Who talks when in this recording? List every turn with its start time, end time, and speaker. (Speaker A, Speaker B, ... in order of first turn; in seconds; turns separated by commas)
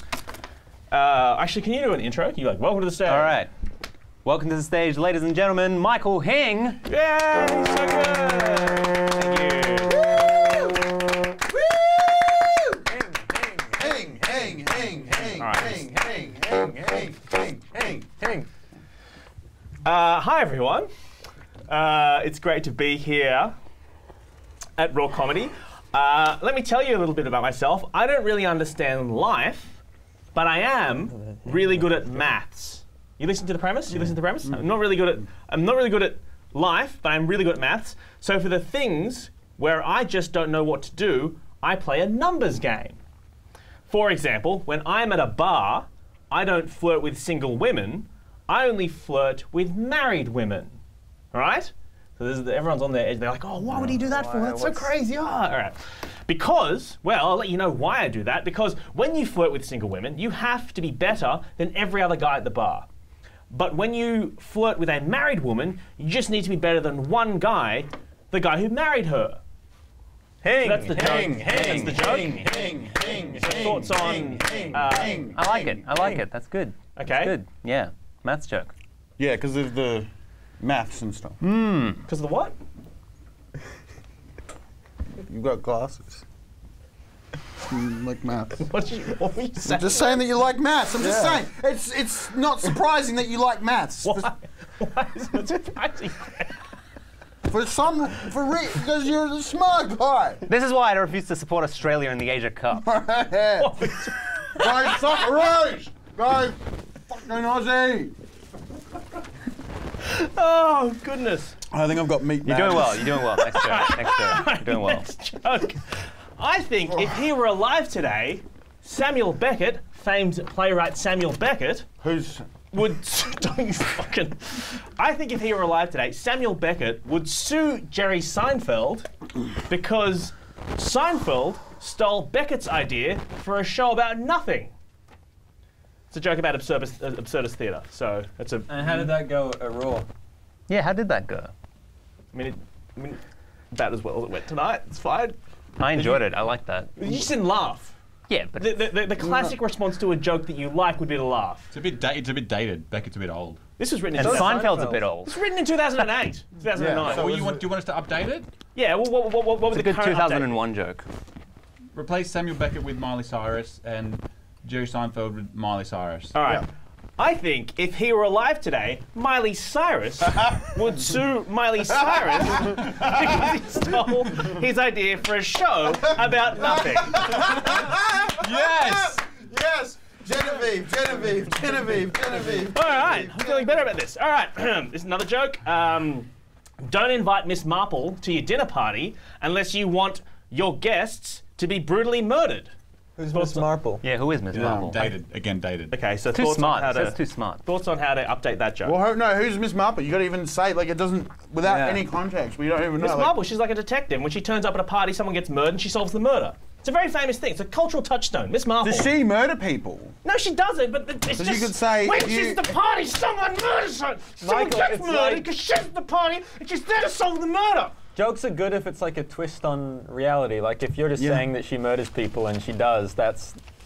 Speaker A: 0.9-3.4, Speaker B: 3.0-3.5, Speaker B: 4.2-6.8, Speaker A: 6.8-10.3, Speaker C: 9.9-10.9, Speaker C: 11.4-12.8, Speaker D: 12.9-13.9, Speaker C: 13.7-18.1, Speaker A: 15.4-15.8, Speaker D: 18.2-18.5, Speaker A: 19.8-20.9, Speaker A: 21.7-23.5, Speaker A: 24.8-29.8, Speaker A: 30.3-43.0, Speaker D: 31.3-31.8, Speaker A: 43.9-50.8, Speaker A: 51.3-62.9, Speaker B: 53.7-54.9, Speaker A: 63.5-69.4, Speaker A: 70.6-72.7, Speaker D: 70.6-73.8, Speaker C: 70.8-75.7, Speaker B: 71.5-72.0, Speaker A: 73.4-76.2, Speaker B: 75.3-78.7, Speaker A: 77.0-77.3, Speaker C: 79.2-80.1, Speaker C: 80.6-81.4, Speaker B: 81.4-82.0, Speaker A: 82.1-82.5, Speaker C: 85.2-86.2, Speaker C: 87.7-88.7, Speaker A: 88.6-90.2, Speaker C: 89.6-94.3, Speaker D: 91.0-91.4, Speaker A: 94.0-96.6, Speaker C: 97.5-100.4, Speaker B: 100.5-102.9, Speaker C: 102.8-104.0, Speaker A: 103.6-105.1, Speaker C: 104.5-108.1, Speaker A: 110.0-111.5, Speaker C: 111.7-113.2, Speaker B: 112.4-115.1, Speaker A: 113.4-121.9, Speaker C: 122.0-122.5, Speaker A: 122.7-129.1, Speaker A: 129.7-134.7, Speaker A: 136.1-139.1, Speaker D: 138.7-140.1, Speaker B: 140.7-141.5, Speaker A: 142.3-143.2, Speaker A: 143.7-145.3, Speaker B: 145.8-147.2, Speaker A: 145.9-146.2, Speaker A: 147.0-147.9, Speaker B: 148.3-149.0, Speaker A: 148.6-151.7, Speaker C: 149.2-149.5, Speaker E: 151.7-153.6, Speaker A: 153.8-157.3, Speaker D: 154.1-155.0, Speaker B: 154.2-155.4, Speaker C: 156.8-157.7, Speaker E: 157.0-158.5, Speaker A: 158.7-160.6, Speaker B: 159.7-161.0, Speaker E: 161.9-166.4, Speaker A: 166.3-166.7, Speaker A: 167.2-177.6, Speaker C: 172.0-173.4, Speaker C: 176.0-183.8, Speaker E: 178.4-179.2, Speaker A: 182.7-186.3, Speaker A: 186.8-192.7, Speaker D: 193.2-194.0, Speaker A: 193.3-193.7, Speaker B: 194.0-195.0, Speaker E: 194.5-196.0, Speaker C: 194.5-194.9, Speaker A: 195.9-199.0, Speaker B: 196.3-197.6, Speaker C: 198.8-203.3, Speaker B: 201.6-202.0, Speaker A: 203.0-209.1, Speaker C: 208.8-210.1, Speaker A: 210.2-217.9, Speaker C: 211.3-212.8, Speaker D: 214.4-215.5, Speaker D: 218.1-223.6, Speaker C: 221.2-221.5